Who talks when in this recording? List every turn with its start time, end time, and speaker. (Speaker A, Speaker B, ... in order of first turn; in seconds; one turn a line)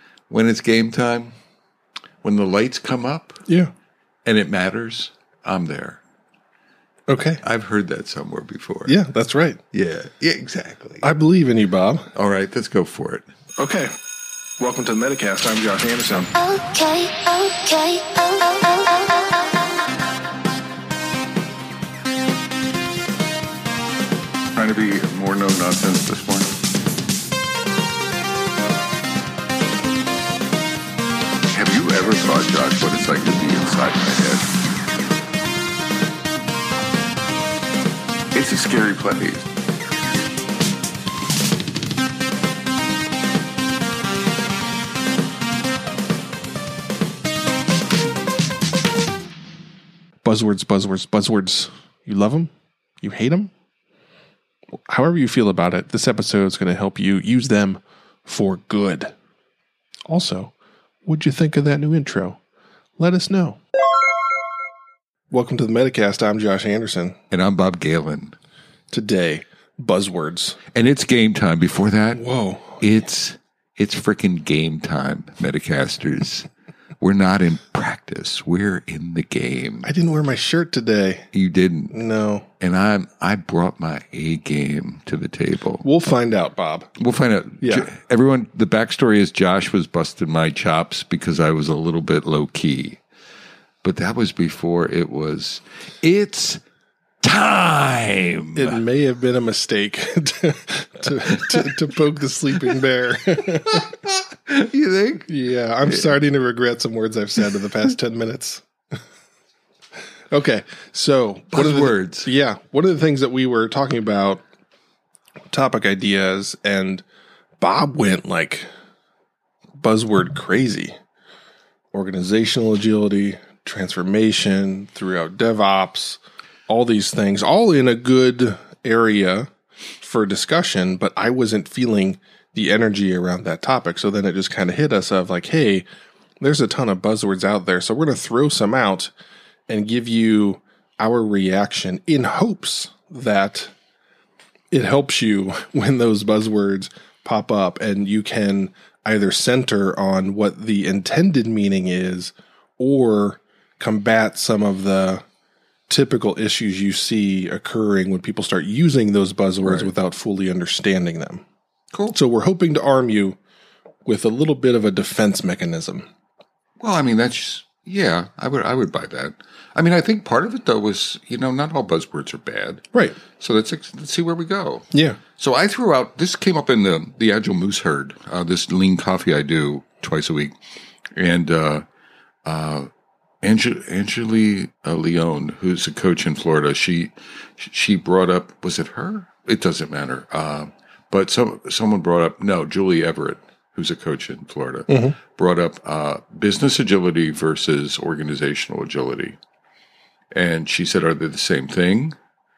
Speaker A: 0.3-1.3
Speaker A: 2.2-3.4
Speaker B: 3.5-3.7
Speaker A: 4.2-6.0
Speaker B: 7.1-7.4
Speaker A: 7.4-8.9
Speaker B: 8.9-9.6
Speaker A: 9.7-11.1
Speaker B: 11.0-12.1
Speaker A: 12.1-13.3
Speaker B: 13.6-13.9
Speaker B: 14.6-16.3
Speaker C: 16.3-19.8
Speaker A: 24.5-26.6
Speaker A: 31.5-34.6
Speaker A: 38.3-39.5
Speaker B: 50.2-53.5
Speaker B: 54.7-59.1
Speaker B: 60.1-60.5
Speaker B: 61.0-62.4
Speaker B: 63.0-63.6
Speaker B: 65.3-67.2
Speaker A: 67.3-68.3
Speaker B: 68.9-70.6
Speaker A: 70.7-72.2
Speaker B: 72.2-72.8
Speaker A: 72.8-76.5
Speaker A: 77.0-79.9
Speaker B: 79.8-81.3
Speaker A: 81.3-82.0
Speaker B: 81.9-82.5
Speaker A: 82.6-85.8
Speaker B: 85.8-86.9
Speaker A: 87.0-93.0
Speaker B: 87.6-87.9
Speaker A: 93.8-96.6
Speaker A: 97.2-98.8
Speaker B: 98.5-103.9
Speaker A: 101.2-101.7
Speaker A: 103.7-105.3
Speaker B: 105.3-108.6
Speaker B: 110.3-114.4
Speaker A: 111.5-112.3
Speaker B: 115.5-117.0
Speaker B: 117.6-118.7
Speaker B: 119.8-121.0
Speaker B: 121.9-129.5
Speaker B: 130.0-135.8
Speaker B: 136.4-139.1
Speaker B: 139.7-143.7
Speaker B: 144.7-155.2
Speaker B: 155.9-161.4
Speaker A: 159.6-159.9
Speaker B: 162.1-163.4
Speaker B: 164.0-166.1
Speaker A: 166.8-180.5
Speaker B: 174.9-175.2
Speaker A: 181.2-181.8
Speaker A: 182.4-182.9
Speaker A: 183.4-199.4
Speaker B: 194.9-195.2
Speaker A: 200.3-202.2